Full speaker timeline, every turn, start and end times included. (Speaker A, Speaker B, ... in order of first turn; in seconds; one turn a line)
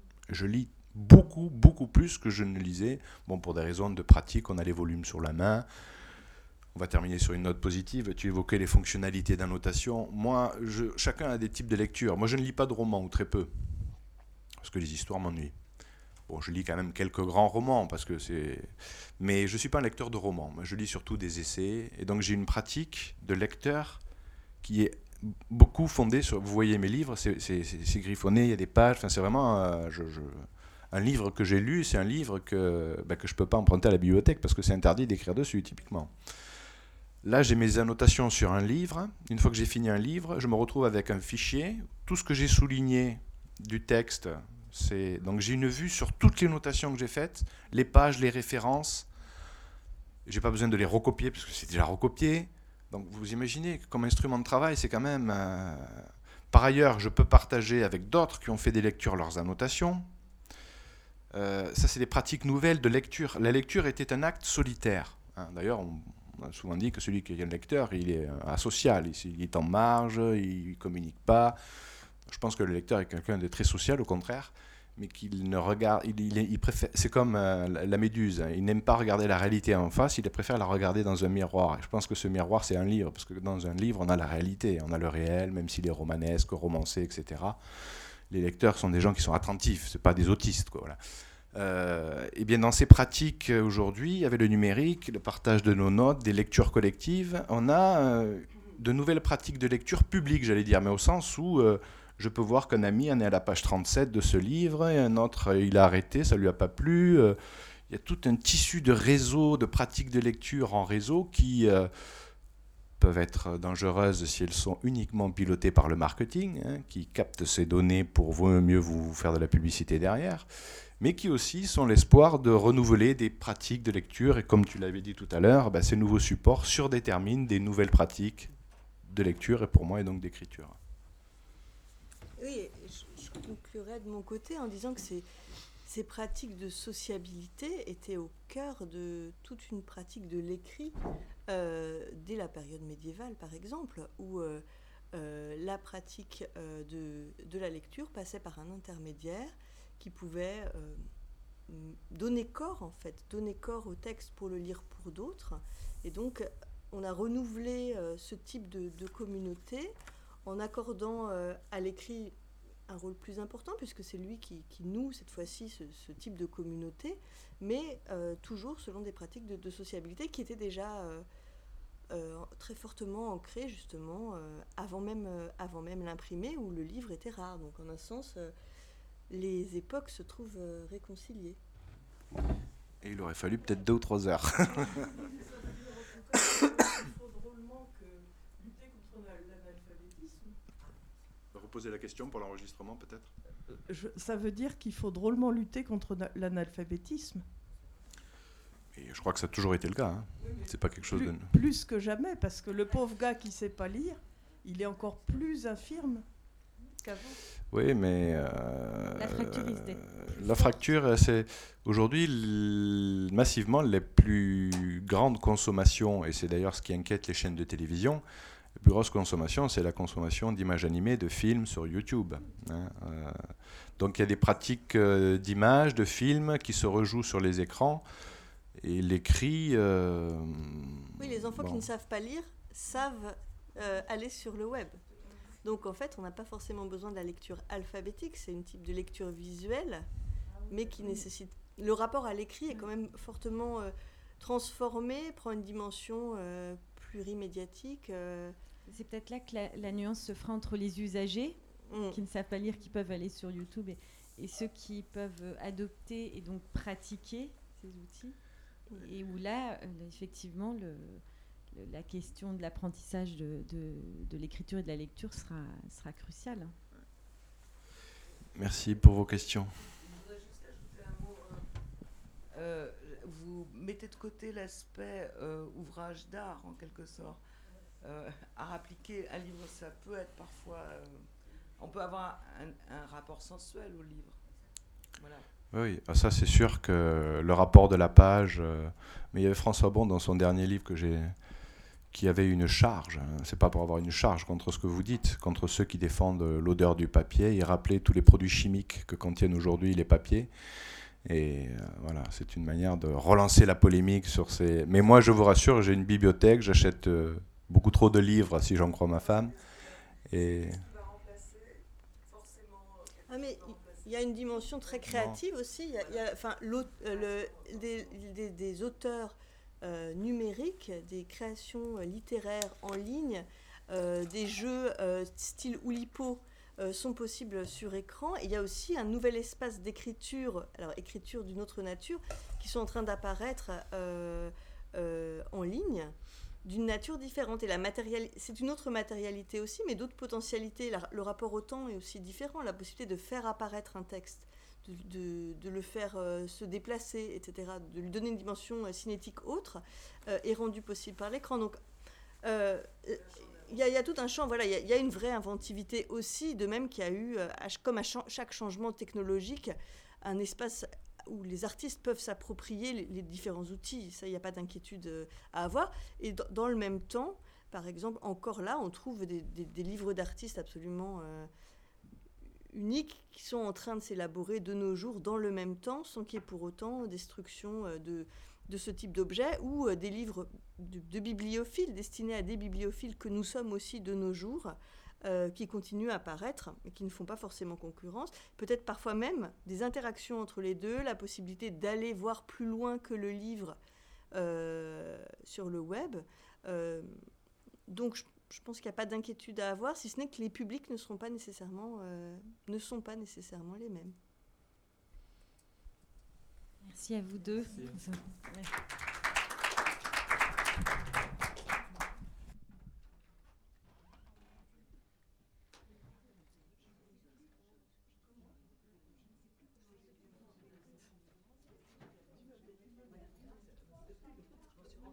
Speaker A: 0.3-5.7
Speaker A: 6.7-13.9
Speaker A: 14.6-15.6
Speaker A: 16.3-24.0
Speaker A: 24.6-36.1
Speaker A: 37.2-49.1
Speaker A: 50.2-60.1
Speaker A: 61.3-71.6
Speaker A: 72.3-91.0
Speaker A: 91.5-111.9
Speaker A: 113.0-120.5
Speaker A: 121.0-128.5
Speaker A: 129.0-130.8
Speaker B: 132.4-135.3
Speaker B: 135.8-141.0
Speaker B: 141.5-151.0
Speaker B: 151.7-162.3
Speaker B: 162.9-171.2
Speaker B: 172.1-178.5
Speaker B: 179.3-181.6
Speaker A: 183.0-185.2
Speaker C: 185.1-190.6
Speaker A: 191.5-193.3
Speaker C: 193.7-197.4
Speaker A: 198.9-201.5
Speaker C: 200.4-206.2
Speaker C: 207.0-207.4
Speaker A: 207.7-218.2
Speaker D: 209.2-210.8
Speaker A: 218.8-223.4
Speaker A: 224.0-228.0
Speaker A: 228.8-231.8
Speaker B: 231.2-235.0
Speaker B: 235.6-240.1
Speaker B: 240.7-248.5
Speaker D: 248.9-258.4
Speaker B: 251.9-252.2
Speaker D: 258.9-266.7
Speaker A: 268.5-269.7
Speaker E: 269.9-271.7
Speaker E: 272.5-277.4
Speaker E: 278.0-284.4
Speaker E: 285.1-285.5
Speaker A: 285.7-291.4
Speaker A: 292.1-300.5
Speaker A: 301.2-309.6
Speaker A: 310.2-310.9
Speaker E: 311.1-313.2
Speaker B: 313.3-351.8
Speaker A: 315.1-315.4
Speaker B: 352.4-371.5
Speaker B: 372.7-393.8
Speaker B: 394.3-397.2
Speaker B: 397.9-404.1
Speaker D: 406.8-408.7